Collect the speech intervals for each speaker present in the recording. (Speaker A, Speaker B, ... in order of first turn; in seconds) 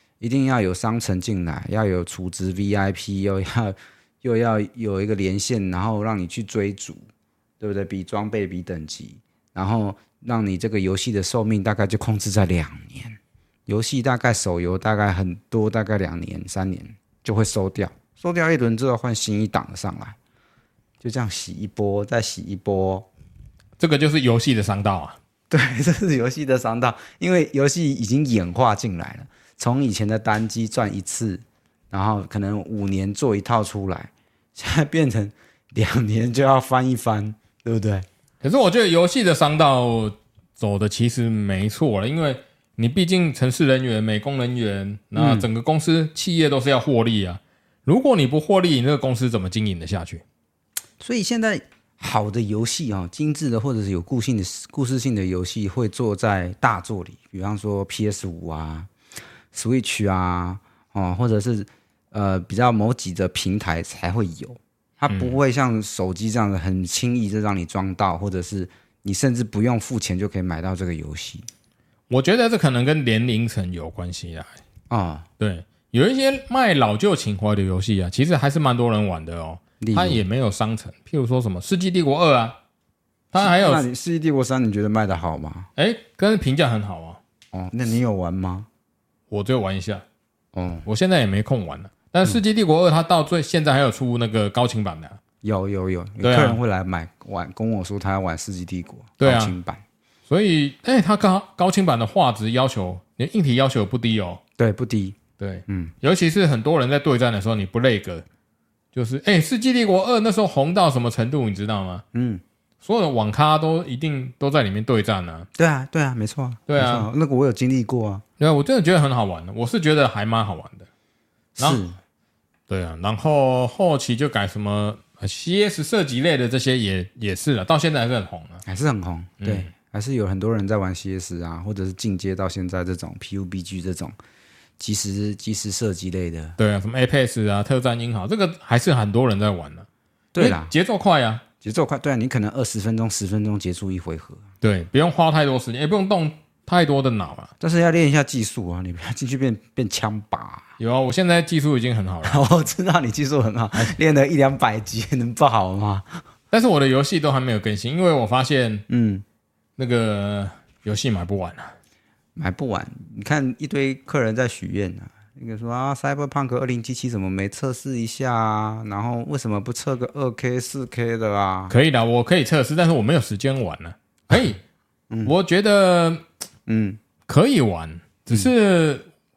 Speaker A: 0.2-7.1, 7.6-20.2, 21.0-23.1, 25.5-38.1, 45.1-45.5, 51.0-58.9, 59.5-71.5, 74.9-75.2, 79.8-80.2, 83.4-85.7, 87.5-88.7, 90.5-90.9, 95.4-99.8, 104.6-105.2, 105.7-105.9, 112.1-112.4, 115.6-118.2, 121.6-122.0, 128.7-134.1, 134.8-136.6, 140.3-140.7, 141.6-144.4, 147.6-150.7, 152.2-156.2, 158.9-159.2, 162.3-171.7, 176.7-177.0
Speaker B: 23.8-25.2, 38.4-50.2, 65.1-65.4, 72.1-74.6, 75.4-82.6, 83.3-83.8, 85.8-87.2, 89.3-90.0, 90.8-95.2, 96.2-96.6, 99.2-99.5, 100.3-104.4, 105.4-108.2, 108.9-112.0, 112.8-115.5, 116.7-117.1, 118.4-120.9, 122.7-128.6, 129.4-129.7, 136.6-139.9, 140.4-141.4, 144.6-147.5, 150.8-152.4, 156.5-158.8, 159.8-161.7, 171.7-174.6, 175.2-176.2, 177.3-179.1